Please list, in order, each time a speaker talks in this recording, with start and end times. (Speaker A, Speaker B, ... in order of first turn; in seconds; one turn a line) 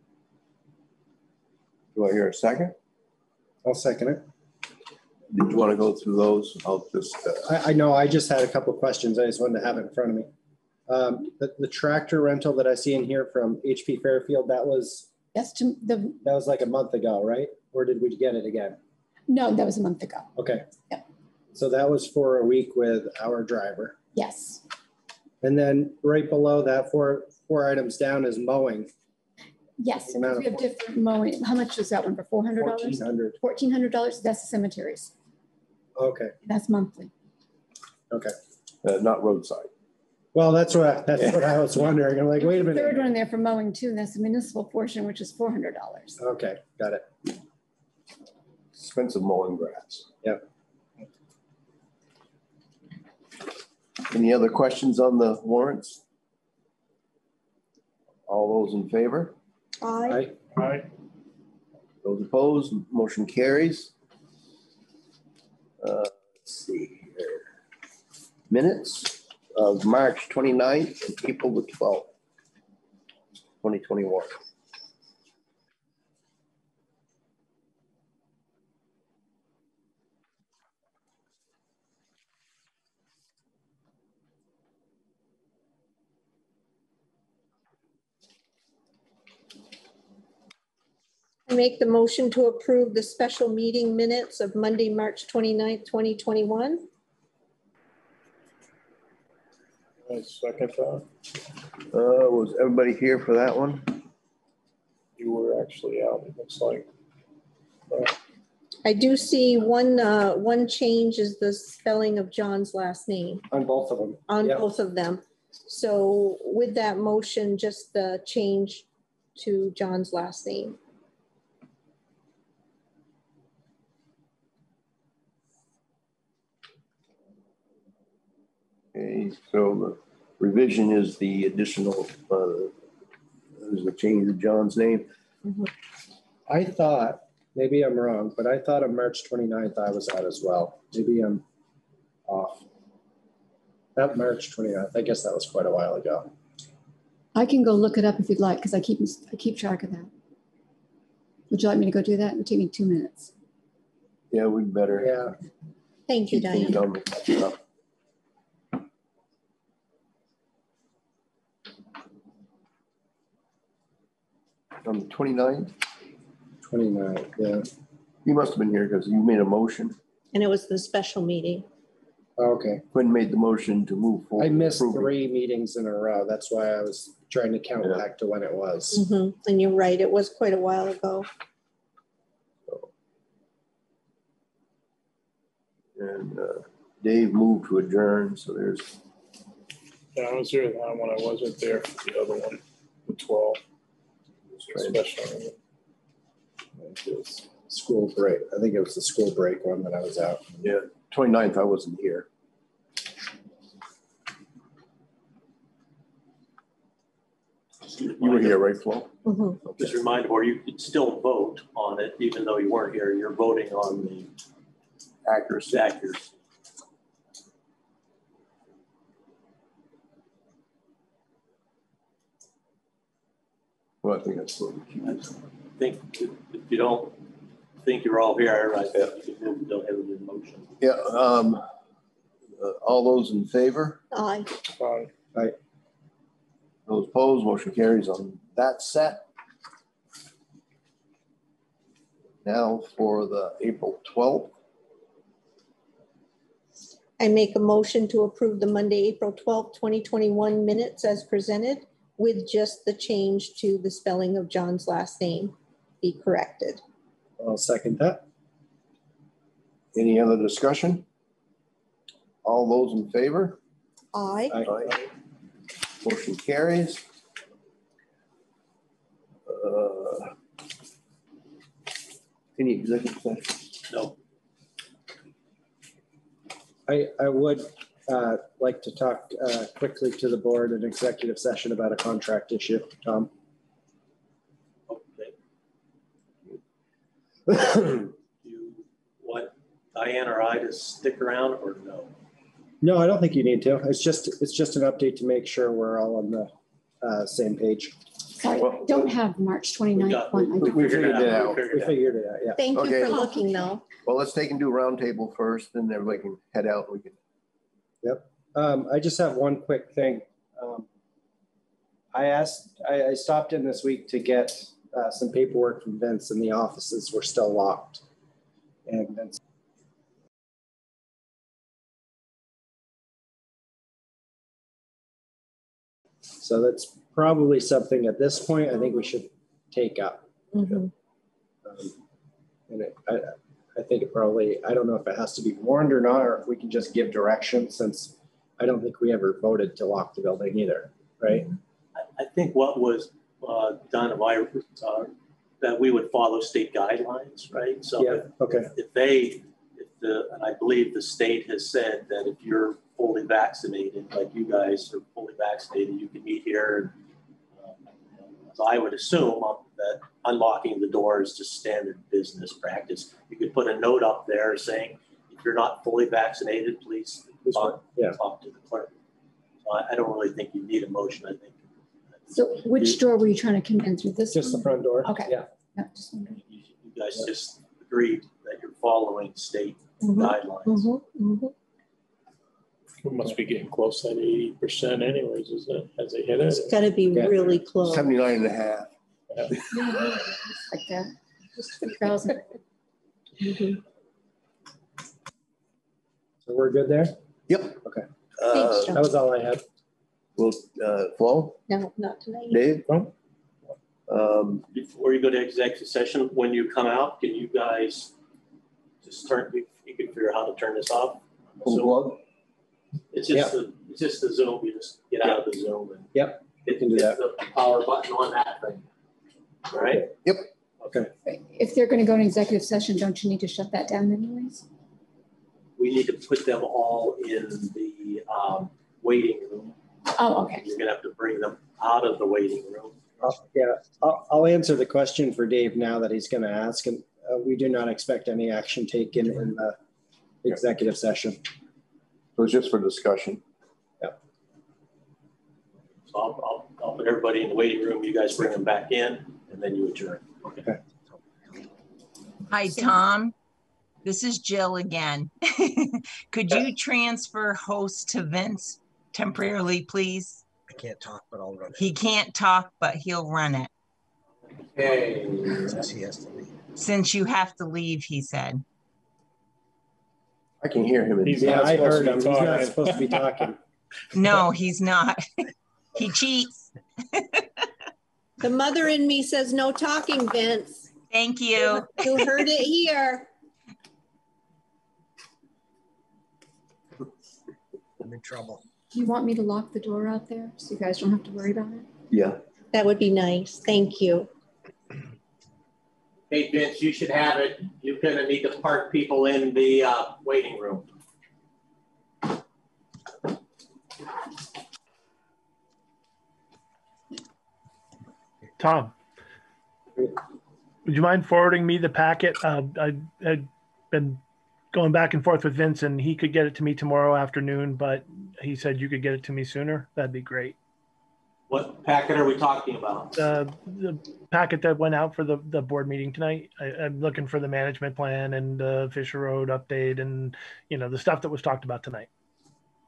Speaker A: 1.9-2.7
Speaker B: 3.6-4.2
Speaker A: 5.3-7.5
Speaker B: 7.4-10.3
Speaker B: 10.9-15.1
Speaker C: 15.3-16.2
Speaker B: 16.2-18.8
Speaker C: 19.3-20.3
Speaker B: 20.4-20.7
Speaker B: 21.5-24.0
Speaker C: 24.1-24.6
Speaker B: 25.4-28.9
Speaker C: 29.8-35.1
Speaker B: 30.0-30.7
Speaker B: 32.6-33.4
Speaker B: 36.0-36.4
Speaker C: 36.4-37.1
Speaker A: 38.8-39.7
Speaker B: 40.3-43.1
Speaker C: 42.4-46.2
Speaker B: 46.2-47.1
Speaker A: 48.7-50.1
Speaker A: 54.1-56.0
Speaker A: 58.3-59.3
Speaker D: 59.8-60.3
Speaker B: 60.1-60.3
Speaker E: 60.5-60.9
Speaker A: 62.0-63.9
Speaker A: 65.8-67.5
Speaker A: 68.5-72.1
Speaker A: 73.6-74.4
Speaker D: 91.5-96.8
Speaker E: 100.0-101.0
Speaker A: 101.9-104.0
Speaker E: 105.2-106.9
Speaker E: 107.9-108.1
Speaker D: 108.8-113.4
Speaker B: 113.5-114.6
Speaker D: 114.3-120.8
Speaker A: 128.9-132.7
Speaker A: 133.6-135.1
Speaker B: 136.5-141.4
Speaker B: 142.3-142.7
Speaker B: 143.9-146.3
Speaker C: 147.3-150.1
Speaker C: 151.5-153.3
Speaker A: 154.3-155.3
Speaker B: 155.0-155.3
Speaker D: 156.1-156.9
Speaker A: 156.3-157.6
Speaker A: 164.8-165.7
Speaker B: 166.6-167.7
Speaker A: 168.2-169.9
Speaker D: 170.3-171.7
Speaker B: 172.4-172.8
Speaker A: 172.9-175.1
Speaker B: 174.4-179.0
Speaker D: 178.9-181.3
Speaker A: 185.9-188.9
Speaker E: 190.1-193.6
Speaker E: 194.6-195.6
Speaker A: 194.7-195.0
Speaker B: 196.8-200.7
Speaker A: 200.6-202.2
Speaker F: 208.0-208.6
Speaker A: 208.1-209.1
Speaker D: 209.2-209.6
Speaker A: 209.6-210.0
Speaker F: 209.8-214.3
Speaker A: 215.2-216.1
Speaker F: 215.7-216.2
Speaker A: 224.0-225.2
Speaker F: 225.0-227.1
Speaker F: 227.8-230.7
Speaker A: 230.8-231.6
Speaker A: 232.6-234.0
Speaker D: 234.1-234.5
Speaker E: 234.7-235.1
Speaker A: 236.9-239.2
Speaker A: 242.4-244.5
Speaker D: 247.2-256.8
Speaker B: 257.4-258.2
Speaker A: 259.9-261.0
Speaker A: 262.4-263.6
Speaker D: 264.1-264.6
Speaker B: 264.5-265.0
Speaker A: 264.6-264.9
Speaker A: 266.0-267.0
Speaker A: 269.4-270.3
Speaker A: 272.6-273.6
Speaker F: 273.9-274.1
Speaker B: 276.9-283.3
Speaker F: 284.9-285.3
Speaker A: 287.5-288.1
Speaker F: 288.4-292.1
Speaker B: 292.8-296.5
Speaker B: 297.0-298.0
Speaker C: 298.4-301.3
Speaker A: 298.6-299.1
Speaker F: 299.9-302.1
Speaker A: 300.6-301.6
Speaker B: 301.6-302.6
Speaker D: 302.6-303.9
Speaker A: 302.7-303.2
Speaker C: 303.1-303.5
Speaker A: 304.0-307.1
Speaker B: 308.0-310.9
Speaker B: 312.1-318.0
Speaker B: 318.9-319.3
Speaker B: 326.4-330.9
Speaker D: 330.5-330.9
Speaker B: 331.6-331.9
Speaker B: 332.7-341.5
Speaker F: 342.0-356.9
Speaker B: 348.0-348.7
Speaker F: 358.4-368.9
Speaker B: 367.4-368.2
Speaker F: 369.6-371.6
Speaker C: 372.3-376.4
Speaker B: 374.3-375.5
Speaker F: 376.5-380.9
Speaker D: 380.0-381.5
Speaker E: 383.0-386.9
Speaker D: 386.5-388.1
Speaker A: 387.8-388.9
Speaker C: 389.7-392.5
Speaker D: 393.4-393.8
Speaker B: 396.4-397.1
Speaker A: 397.5-397.8
Speaker A: 398.4-399.0
Speaker D: 398.5-399.0
Speaker B: 398.9-399.6
Speaker A: 400.4-401.6
Speaker D: 401.7-402.7
Speaker A: 402.5-402.9
Speaker A: 404.1-404.6
Speaker F: 404.7-408.1
Speaker F: 409.0-412.1
Speaker A: 411.6-412.2
Speaker F: 413.1-416.1
Speaker B: 416.1-417.2
Speaker F: 416.6-418.8
Speaker F: 419.7-420.1
Speaker C: 421.2-424.6
Speaker F: 425.8-429.8
Speaker C: 430.1-430.7
Speaker F: 430.4-433.2
Speaker B: 433.2-439.8
Speaker B: 440.4-441.4
Speaker A: 442.4-443.4
Speaker F: 446.1-450.6
Speaker G: 452.5-453.3
Speaker G: 454.0-460.4
Speaker H: 460.7-461.9
Speaker G: 461.8-463.7
Speaker F: 464.7-465.8
Speaker H: 465.6-466.5
Speaker G: 466.8-468.6
Speaker A: 470.6-472.4
Speaker E: 471.2-473.4
Speaker B: 471.4-473.6
Speaker G: 474.1-475.2
Speaker G: 475.9-477.4
Speaker D: 478.4-480.9
Speaker G: 481.1-482.4
Speaker D: 481.5-483.3
Speaker H: 488.0-488.6
Speaker C: 488.9-491.9
Speaker A: 492.1-492.4
Speaker D: 492.7-494.3
Speaker F: 496.3-500.9
Speaker I: 508.6-508.9
Speaker I: 510.9-514.2
Speaker I: 514.7-520.5
Speaker F: 521.5-523.2
Speaker I: 523.1-532.1